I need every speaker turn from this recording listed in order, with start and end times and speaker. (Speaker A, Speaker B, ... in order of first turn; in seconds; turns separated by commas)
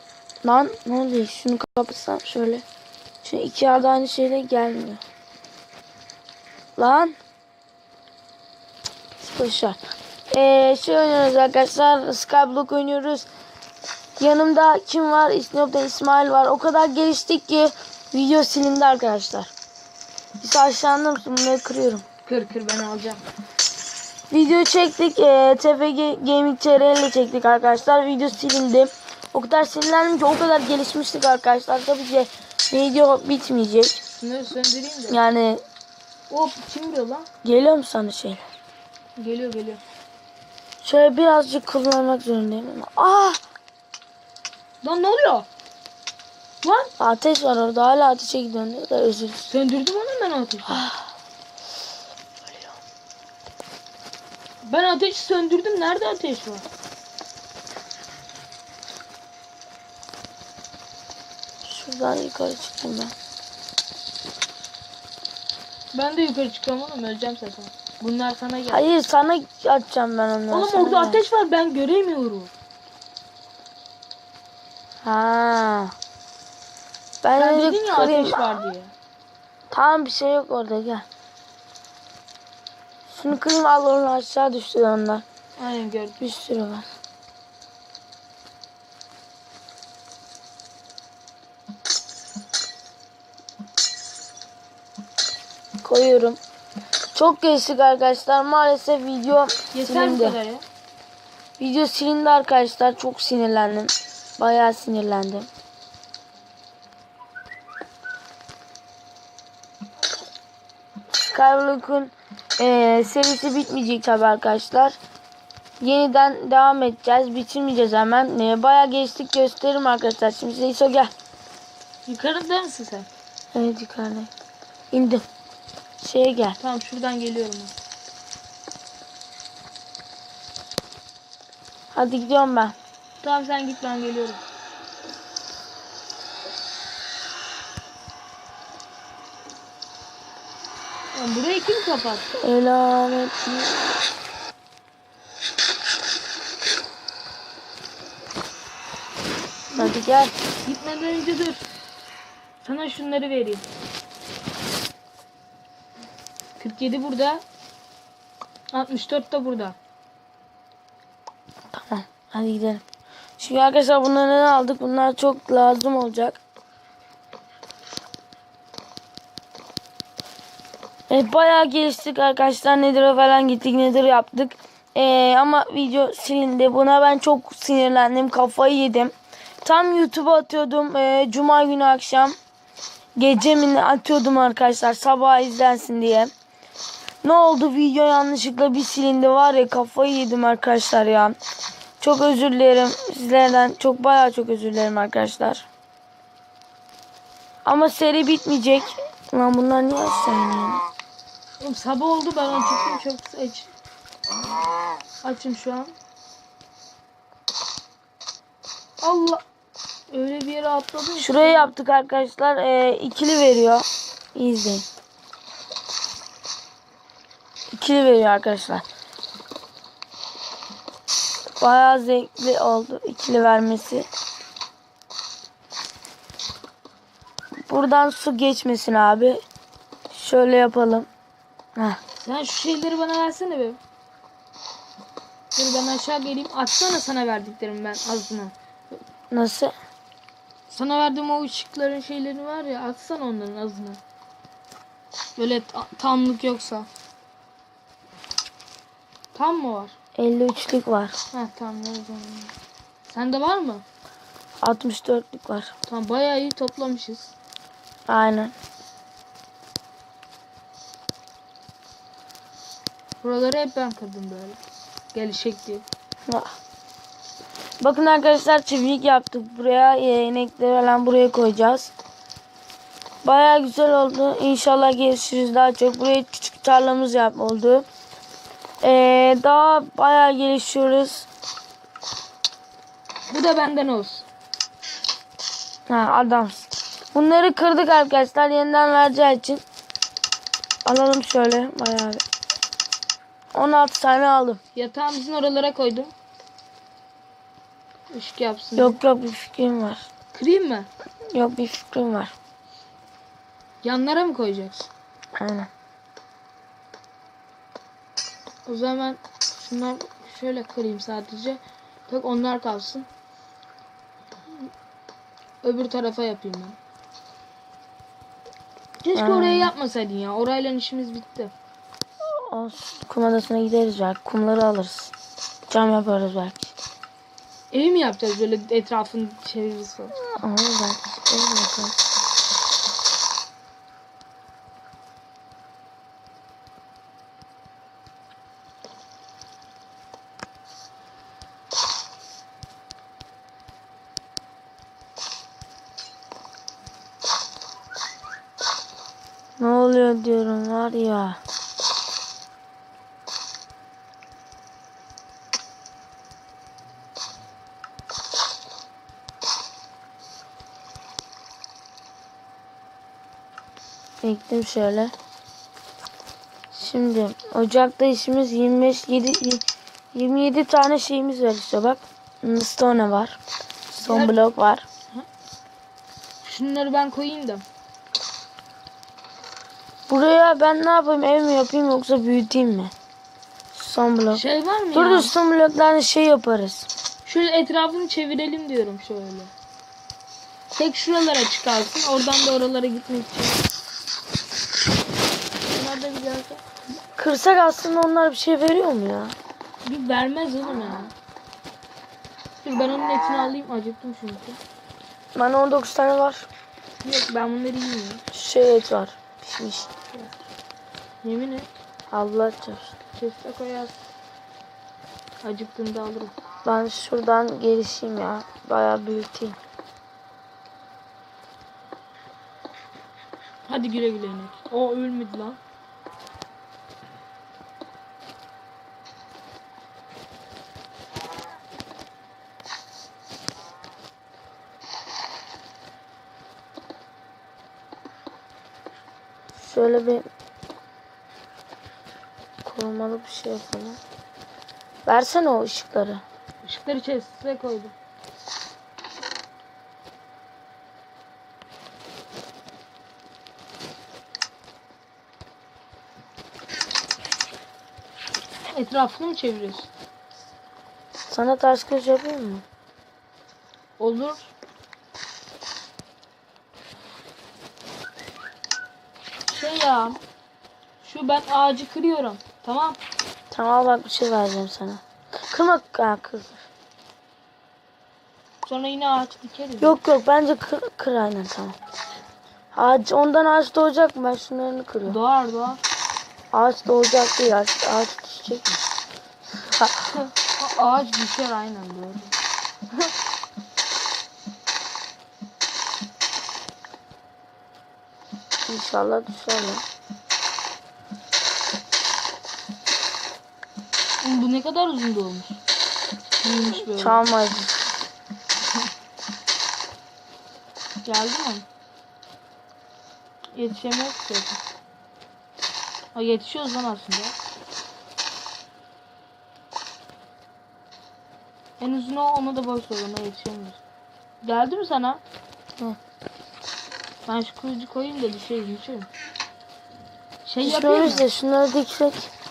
Speaker A: 0.4-2.6, Speaker A: 3.2-5.0, Speaker A: 6.8-7.2, Speaker A: 9.2-13.3, Speaker A: 14.2-19.5, Speaker A: 20.4-22.0, Speaker B: 22.2-23.2, Speaker A: 24.3-34.0, Speaker B: 34.2-35.2, Speaker A: 35.1-35.6, Speaker B: 36.3-37.3, Speaker A: 37.4-38.5, Speaker B: 39.2-39.8, Speaker A: 40.8-43.4, Speaker B: 44.8-45.5, Speaker B: 46.6-46.9, Speaker A: 47.0-49.4, Speaker B: 49.4-50.9, Speaker A: 50.7-51.1, Speaker A: 52.4-52.7, Speaker B: 54.6-56.6, Speaker A: 61.6-63.1, Speaker B: 65.9-68.8, Speaker A: 68.7-71.2, Speaker B: 70.5-72.5, Speaker A: 75.0-76.0, Speaker A: 77.2-78.5, Speaker B: 77.3-78.9, Speaker A: 79.7-81.1, Speaker A: 83.0-85.2, Speaker B: 85.6-86.3, Speaker A: 86.2-86.9, Speaker A: 95.8-96.4, Speaker A: 97.1-100.4, Speaker B: 99.7-100.6, Speaker A: 101.6-105.5, Speaker A: 111.1-115.0, Speaker A: 115.8-121.1, Speaker B: 122.1-123.1, Speaker A: 123.5-124.3, Speaker A: 124.9-125.2, Speaker A: 126.0-126.6, Speaker B: 126.6-127.7, Speaker A: 131.9-132.8, Speaker B: 133.2-134.4, Speaker B: 141.1-142.3, Speaker A: 142.4-143.8, Speaker B: 149.7-150.0, Speaker A: 149.8-150.4, Speaker B: 150.6-151.6, Speaker B: 152.6-153.7, Speaker B: 156.6-157.4, Speaker B: 158.7-159.8, Speaker A: 161.7-162.8, Speaker A: 163.4-166.4, Speaker A: 171.1-182.4, Speaker A: 183.2-186.3, Speaker A: 187.2-191.3, Speaker A: 192.0-195.7, Speaker A: 197.6-200.8, Speaker B: 201.6-203.7, Speaker B: 205.2-205.9, Speaker B: 209.0-209.4, Speaker B: 210.1-211.7, Speaker A: 211.2-214.8, Speaker A: 217.7-218.8, Speaker A: 221.6-224.1, Speaker A: 227.7-229.4, Speaker A: 230.1-231.1, Speaker A: 231.8-232.0, Speaker B: 232.2-233.8, Speaker B: 235.6-238.5, Speaker A: 239.3-239.7, Speaker B: 240.7-244.0, Speaker B: 245.4-246.9, Speaker B: 249.3-249.9, Speaker A: 250.2-251.2, Speaker B: 251.3-252.5, Speaker B: 253.1-253.8, Speaker A: 254.6-255.7, Speaker B: 255.9-257.3, Speaker A: 258.1-258.5, Speaker B: 263.2-264.6, Speaker B: 265.1-265.9, Speaker A: 267.8-271.9, Speaker A: 273.2-277.9, Speaker A: 278.8-281.3, Speaker B: 283.3-284.2, Speaker A: 285.9-289.6, Speaker A: 290.8-292.2, Speaker A: 293.5-294.6, Speaker B: 294.7-296.1, Speaker B: 298.1-299.0, Speaker A: 298.8-300.1, Speaker B: 300.3-300.9, Speaker A: 301.2-302.3, Speaker B: 303.8-304.9, Speaker A: 305.4-305.7, Speaker B: 308.6-313.1, Speaker B: 315.6-316.8, Speaker B: 319.0-321.5, Speaker A: 319.1-319.7, Speaker A: 322.2-325.1, Speaker A: 325.7-326.7, Speaker B: 327.7-330.1, Speaker A: 330.2-331.9, Speaker A: 349.6-351.4, Speaker A: 364.2-365.1, Speaker A: 366.7-373.4, Speaker A: 373.9-374.9, Speaker B: 374.1-374.4, Speaker B: 376.4-377.6, Speaker A: 380.1-382.9, Speaker A: 383.7-386.9, Speaker B: 384.3-385.3, Speaker B: 387.2-389.5, Speaker B: 390.8-393.6, Speaker B: 395.7-396.6, Speaker A: 396.9-399.4, Speaker B: 399.8-401.1, Speaker B: 402.6-404.6, Speaker A: 405.3-406.5, Speaker B: 407.0-408.2, Speaker A: 408.3-409.9, Speaker B: 411.2-411.7, Speaker A: 412.1-413.0, Speaker B: 413.1-414.0, Speaker B: 415.4-416.3, Speaker A: 416.6-419.6, Speaker B: 423.7-425.6, Speaker A: 439.5-440.3, Speaker A: 442.6-444.0, Speaker A: 445.0-446.2, Speaker B: 446.6-447.9, Speaker B: 458.7-459.9, Speaker A: 461.3-462.6, Speaker B: 464.0-464.5, Speaker B: 469.5-470.2, Speaker B: 471.0-473.0, Speaker A: 473.5-476.7, Speaker B: 478.6-480.0, Speaker A: 479.8-481.8, Speaker A: 482.7-485.2, Speaker B: 485.1-485.8, Speaker A: 486.5-488.8, Speaker A: 489.6-490.2, Speaker B: 490.1-492.3, Speaker A: 498.6-499.8, Speaker B: 504.2-505.6, Speaker B: 506.4-507.3, Speaker A: 506.7-507.8, Speaker B: 511.0-511.6, Speaker B: 513.5-514.6, Speaker B: 516.1-517.3, Speaker B: 521.8-523.8, Speaker B: 524.4-525.2, Speaker B: 527.2-529.1, Speaker B: 530.4-531.2, Speaker A: 530.6-532.3